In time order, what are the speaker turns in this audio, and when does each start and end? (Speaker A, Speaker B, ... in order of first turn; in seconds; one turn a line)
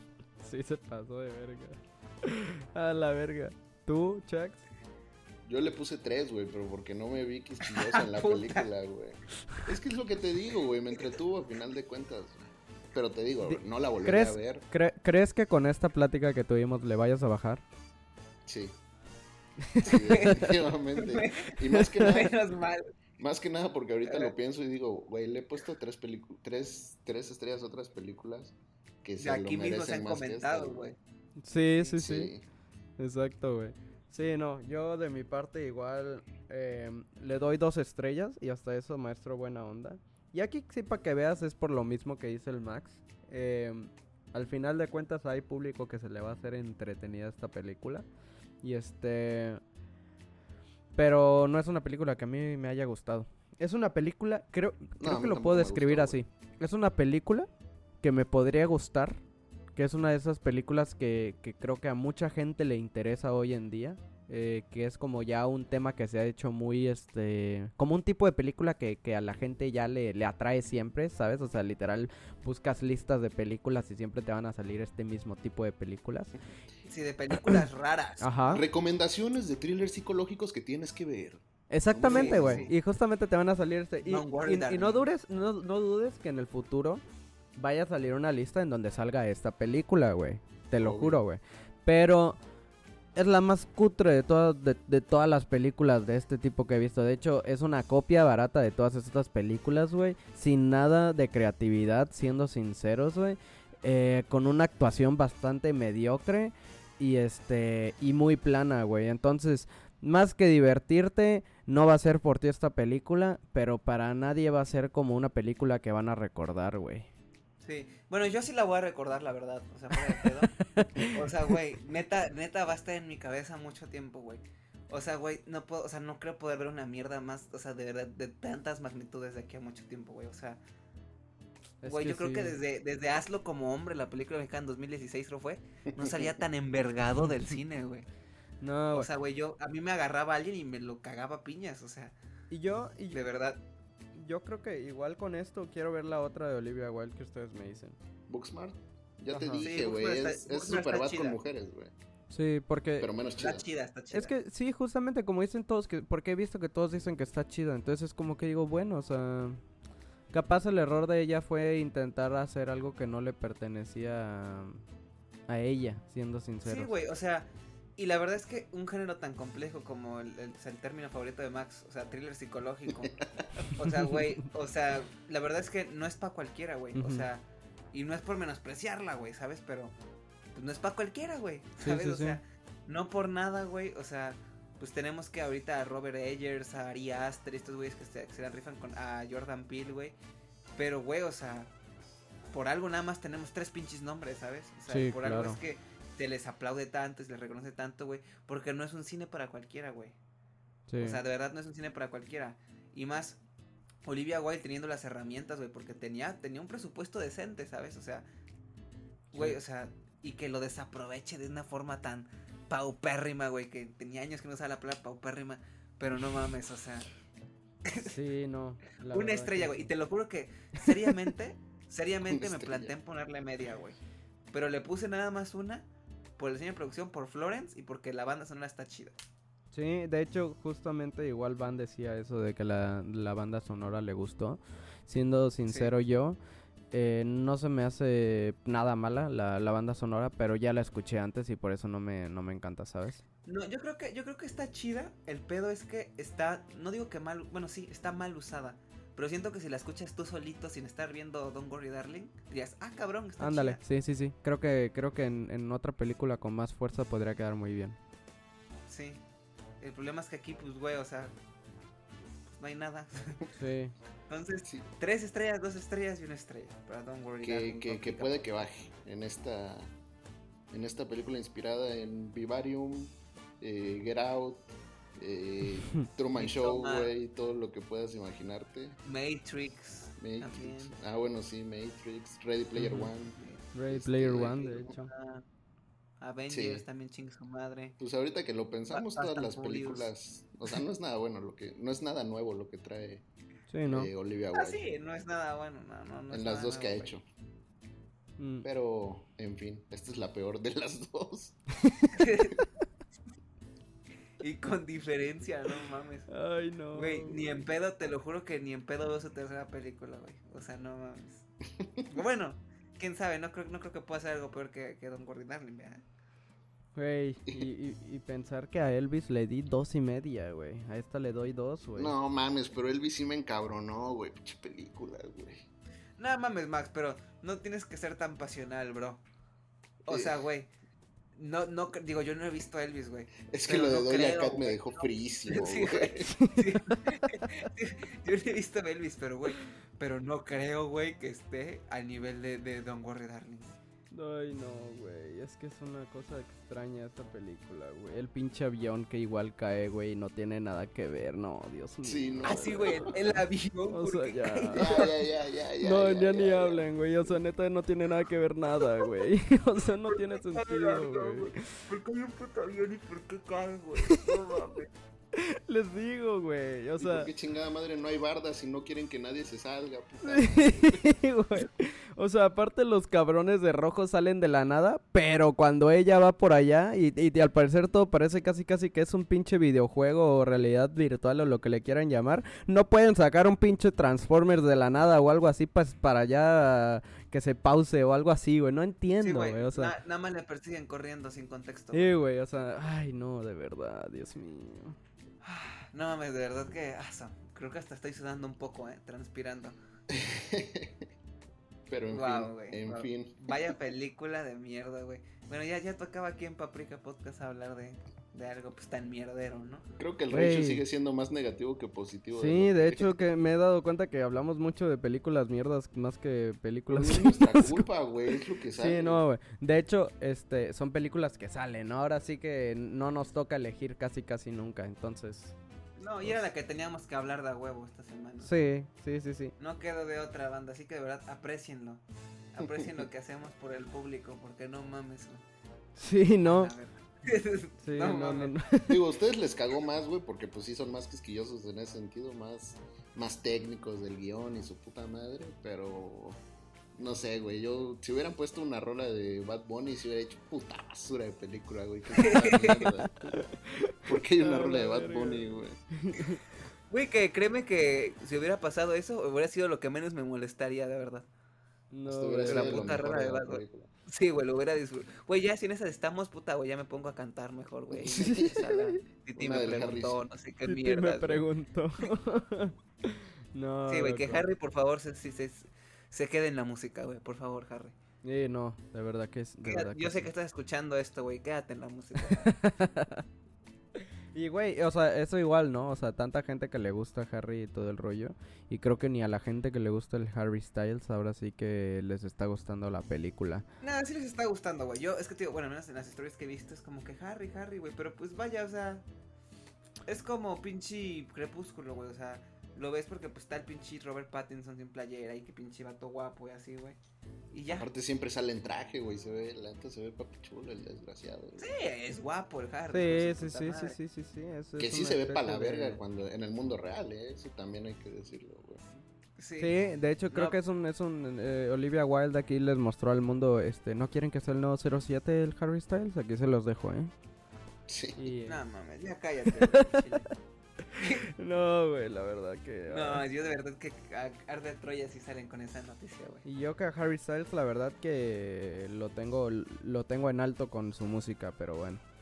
Speaker A: 0.4-4.6
Speaker B: 5.5-14.6
Speaker C: 7.7-8.7
Speaker A: 13.4-17.6
Speaker B: 18.5-18.8
Speaker A: 19.6-20.5
Speaker B: 19.8-22.3
Speaker C: 19.8-22.8
Speaker A: 21.7-22.3
Speaker B: 23.2-30.8
Speaker C: 24.0-24.3
Speaker C: 29.2-31.0
Speaker A: 31.4-32.3
Speaker B: 31.9-32.4
Speaker A: 33.0-48.1
Speaker A: 48.6-49.6
Speaker A: 50.9-57.5
Speaker B: 55.0-56.2
Speaker A: 58.0-59.2
Speaker A: 59.8-76.3
Speaker C: 76.8-78.5
Speaker A: 78.2-78.6
Speaker B: 78.5-82.7
Speaker A: 81.7-87.0
Speaker C: 82.0-82.7
Speaker C: 84.0-85.0
Speaker A: 87.6-92.4
Speaker B: 90.8-91.2
Speaker A: 93.2-117.1
Speaker C: 117.6-130.6
Speaker A: 120.2-121.2
Speaker A: 131.8-132.6
Speaker C: 131.9-138.1
Speaker A: 138.6-139.1
Speaker C: 138.9-142.1
Speaker A: 142.5-143.2
Speaker C: 143.1-143.6
Speaker A: 144.2-148.0
Speaker B: 148.3-151.9
Speaker A: 149.3-149.7
Speaker C: 149.6-151.4
Speaker A: 152.3-153.1
Speaker B: 153.0-153.6
Speaker C: 153.4-154.3
Speaker A: 154.1-159.6
Speaker A: 160.3-164.8
Speaker A: 165.5-166.9
Speaker C: 166.6-173.1
Speaker B: 172.9-173.6
Speaker C: 173.8-179.9
Speaker A: 173.8-174.4
Speaker A: 176.9-177.3
Speaker C: 180.5-190.2
Speaker A: 181.8-182.4
Speaker C: 190.8-191.7
Speaker C: 192.5-200.2
Speaker A: 194.9-195.6
Speaker A: 200.9-201.2
Speaker C: 201.0-203.4
Speaker C: 204.0-208.3
Speaker A: 209.3-209.6
Speaker C: 209.3-217.1
Speaker C: 217.8-218.1
Speaker A: 217.9-219.9
Speaker C: 219.1-224.0
Speaker B: 222.3-222.9
Speaker C: 224.5-225.8
Speaker C: 226.4-229.2
Speaker A: 229.7-236.4
Speaker C: 235.7-235.9
Speaker A: 236.9-243.2
Speaker C: 243.4-253.8
Speaker A: 253.4-258.0
Speaker C: 258.9-259.2
Speaker C: 259.8-261.3
Speaker C: 262.5-263.4
Speaker A: 263.6-263.9
Speaker C: 264.3-268.4
Speaker B: 267.4-269.9
Speaker B: 270.7-279.0
Speaker C: 276.3-277.1
Speaker C: 279.0-280.9
Speaker B: 280.2-283.4
Speaker A: 282.8-283.1
Speaker C: 283.4-283.6
Speaker A: 283.7-285.1
Speaker B: 283.9-284.9
Speaker C: 284.5-285.4
Speaker C: 286.2-287.9
Speaker B: 286.5-286.8
Speaker B: 288.0-293.2
Speaker C: 288.9-290.1
Speaker A: 293.7-294.1
Speaker B: 293.9-294.8
Speaker C: 294.5-297.1
Speaker B: 296.3-297.2
Speaker A: 298.4-298.6
Speaker B: 298.6-301.6
Speaker A: 301.8-302.1
Speaker C: 302.1-302.6
Speaker C: 304.4-306.3
Speaker A: 306.3-307.5
Speaker C: 306.9-311.4
Speaker B: 311.8-312.1
Speaker C: 312.1-316.0
Speaker A: 316.9-322.1
Speaker B: 321.9-325.6
Speaker C: 326.2-329.2
Speaker B: 330.1-330.4
Speaker C: 330.1-330.7
Speaker C: 331.3-343.8
Speaker B: 333.5-336.3
Speaker A: 336.2-337.5
Speaker A: 344.1-352.6
Speaker B: 352.0-353.2
Speaker C: 352.4-355.1
Speaker A: 353.9-355.1
Speaker B: 354.7-357.3
Speaker A: 355.8-361.8
Speaker C: 360.1-364.9
Speaker A: 364.0-364.2
Speaker A: 365.3-367.3
Speaker B: 367.0-371.2
Speaker A: 370.2-389.9
Speaker C: 389.2-392.1
Speaker A: 391.9-395.0
Speaker C: 395.4-399.8
Speaker B: 400.1-401.1
Speaker B: 401.9-403.7
Speaker C: 402.1-409.9
Speaker B: 410.0-413.1
Speaker A: 410.3-410.8
Speaker A: 412.3-417.8
Speaker B: 416.9-419.2
Speaker A: 418.8-425.5
Speaker C: 426.0-428.5
Speaker A: 428.4-429.5
Speaker C: 429.6-432.0
Speaker C: 432.5-435.4
Speaker B: 432.6-433.0
Speaker A: 435.9-436.7
Speaker C: 436.4-438.5
Speaker A: 437.8-439.0
Speaker B: 438.9-446.4
Speaker B: 446.9-453.4
Speaker C: 452.1-452.9
Speaker A: 453.1-456.4
Speaker B: 454.0-455.8
Speaker C: 456.9-461.3
Speaker A: 461.9-463.0
Speaker B: 462.1-463.9
Speaker C: 462.5-471.4
Speaker B: 467.9-468.8
Speaker B: 469.4-470.2
Speaker A: 470.7-474.4
Speaker C: 473.9-477.9
Speaker A: 478.2-480.3
Speaker C: 479.6-482.5
Speaker A: 482.2-483.2
Speaker A: 484.3-493.6
Speaker C: 493.8-499.0
Speaker C: 500.1-507.0
Speaker C: 507.5-507.9
Speaker B: 507.7-511.7
Speaker C: 511.6-514.0
Speaker A: 512.9-516.0
Speaker B: 514.8-518.9
Speaker C: 519.4-519.8
Speaker A: 519.6-527.1
Speaker C: 520.3-520.5
Speaker B: 527.9-528.3
Speaker A: 528.2-528.6
Speaker C: 528.5-530.3
Speaker A: 529.6-533.2
Speaker C: 531.0-531.2
Speaker C: 532.9-536.4
Speaker A: 536.4-542.0